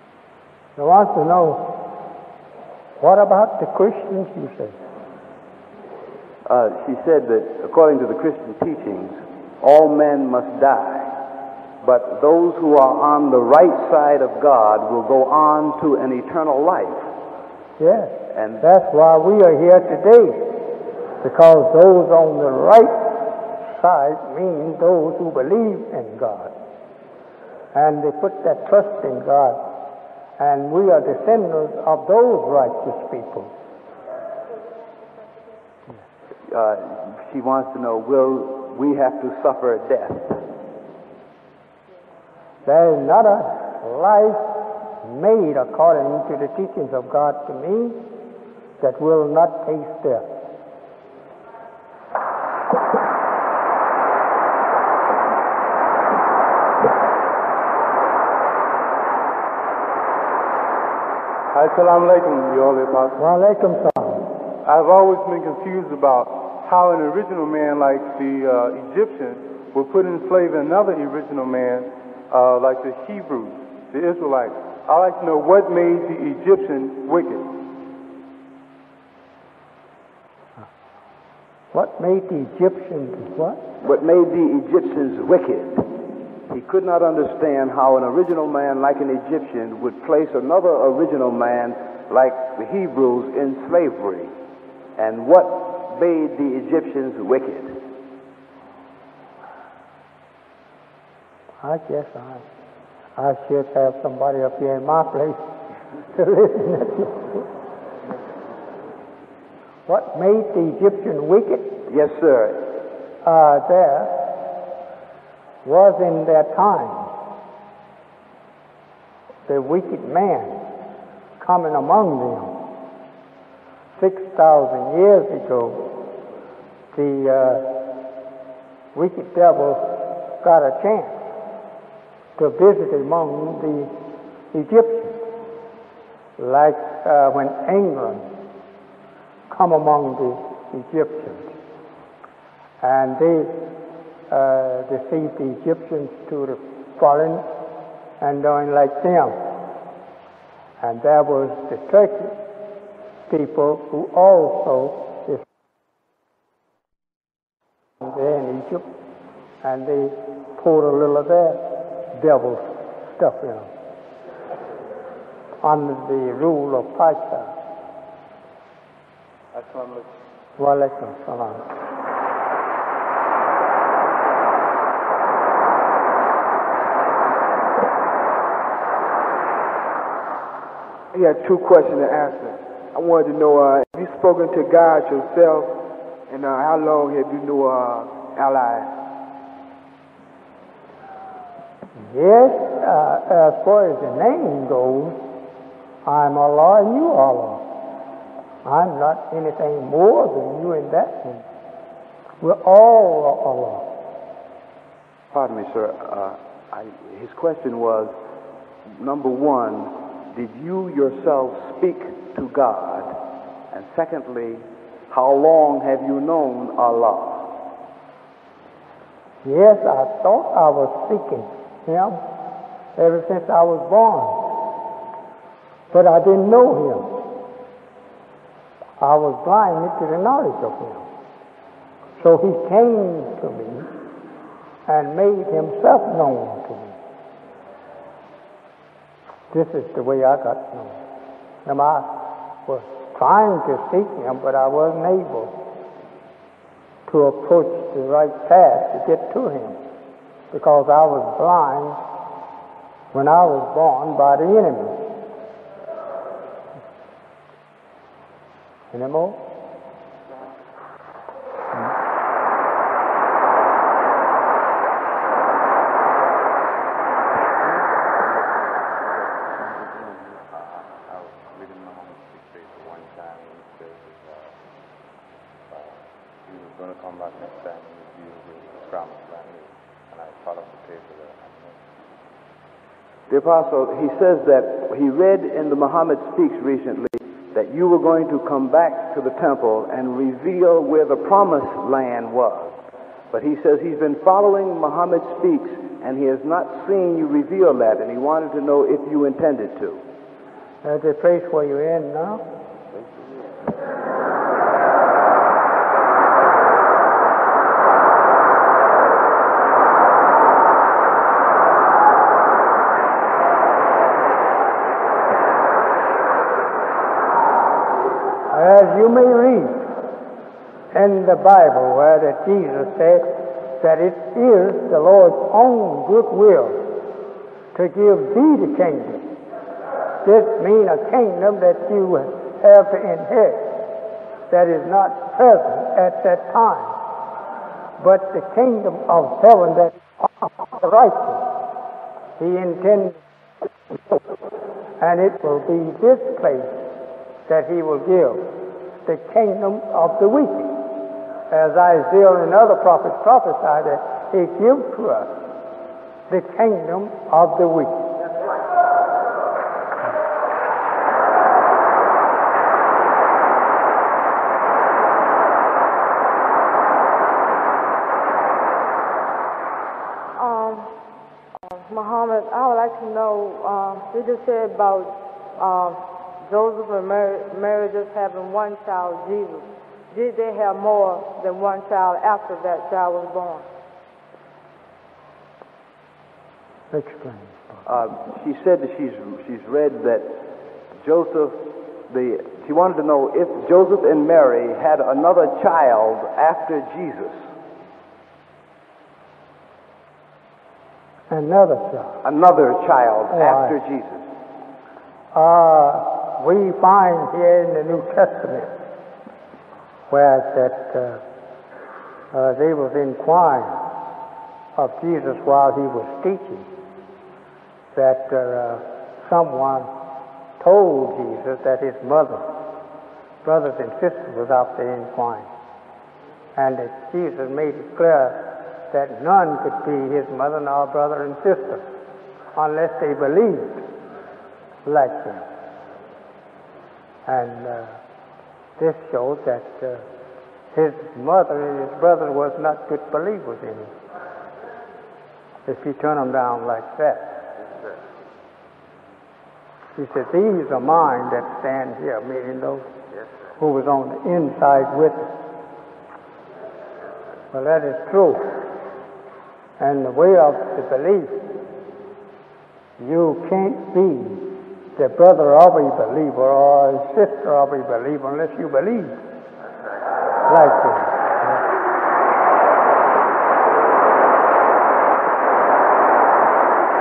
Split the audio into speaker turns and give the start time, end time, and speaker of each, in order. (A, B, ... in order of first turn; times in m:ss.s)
0:00.8-0:01.8 A
0:03.0-0:04.8 A
0:06.5-0:11.2 B
0:11.8-0:17.1 B
0:17.8-0:20.6 A
0:18.3-0:18.6 B
0:21.2-0:26.5 A
0:27.7-0:29.6 A
0:30.4-0:33.5 A
0:36.5-0:40.4 B
0:42.7-0:44.5 A
0:45.0-0:48.1 A
0:48.8-0:50.3 A
1:01.5-1:03.2 C
1:03.2-1:04.2 A
1:04.6-1:17.5 C
1:21.7-1:23.6 A
1:23.8-1:26.0 B
1:26.5-1:34.3 B
1:35.0-1:37.8 B
1:41.6-1:42.5 A
1:43.2-1:45.4 A
1:46.1-1:47.5 A
1:49.9-1:51.8 A
1:51.9-1:52.7 B
1:53.2-1:54.3 A
1:55.6-1:57.1 A
1:59.5-2:00.6 A
2:01.4-2:02.6 A
2:04.0-2:06.0 A
2:06.9-2:07.8 A
2:08.9-2:11.2 A
2:12.4-2:13.9 A
2:14.5-2:15.2 A
2:16.4-2:18.3 A
2:19.5-2:21.5 A
2:22.8-2:23.7 A
2:24.3-2:27.4 A
2:28.2-2:29.4 A
2:30.8-2:32.4 A
2:33.3-2:35.4 A
2:38.0-2:38.9 A
2:39.6-2:43.7 A
2:45.6-2:47.5 A
2:49.5-2:50.0 C
2:50.6-2:51.7 A
3:01.1-3:05.8 D
3:06.3-3:09.0 D
3:12.0-3:15.2 A
3:16.0-3:17.7 A
3:18.6-3:21.4 A
3:22.4-3:23.9 A
3:25.3-3:28.1 B
3:28.9-3:33.2 B
3:33.7-3:37.6 B
3:39.4-3:42.2 A
3:43.0-3:44.6 A
3:45.9-3:47.2 A
3:49.0-3:51.1 A
3:52.2-3:53.9 A
3:54.9-3:57.0 A
3:59.5-4:01.0 A
4:01.6-4:05.6 A
4:07.1-4:09.8 A
4:10.5-4:12.0 A
4:13.1-4:15.1 A
4:18.9-4:19.4 A
4:27.6-4:34.5 E
4:35.7-4:41.8 E
4:43.3-5:00.0 B
5:00.8-5:02.4 A
5:18.5-5:19.9 A
5:20.9-5:27.0 A
5:27.7-5:29.3 A
5:30.2-5:33.8 A
5:34.5-5:37.0 A
5:38.0-5:41.6 A
5:42.4-5:43.2 A
5:45.0-5:46.8 A
5:47.5-5:50.8 A
5:51.5-5:55.4 A
5:56.3-5:58.1 A
6:10.4-6:10.9 F
6:11.7-6:23.7 F
6:26.9-6:27.8 A
6:27.8-6:30.4 B
6:31.0-6:37.5 B
6:41.3-6:42.2 A
6:42.2-6:44.3 B
6:43.3-6:43.8 A
6:45.3-6:48.7 A
6:50.1-6:51.2 A
6:52.3-6:53.8 A
6:54.8-6:56.7 A
6:58.0-6:59.9 A
7:00.6-7:02.5 A
7:03.4-7:05.5 A
7:06.6-7:11.8 A
7:12.6-7:13.9 A
7:14.8-7:15.5 A
7:17.3-7:18.0 A
7:18.8-7:20.0 A
7:20.7-7:23.9 A
7:25.7-7:27.4 A
7:30.0-7:32.9 A
7:33.6-7:35.3 A
7:37.5-7:38.6 A
7:39.8-7:41.4 A
7:43.0-7:49.2 A
7:50.5-7:51.6 A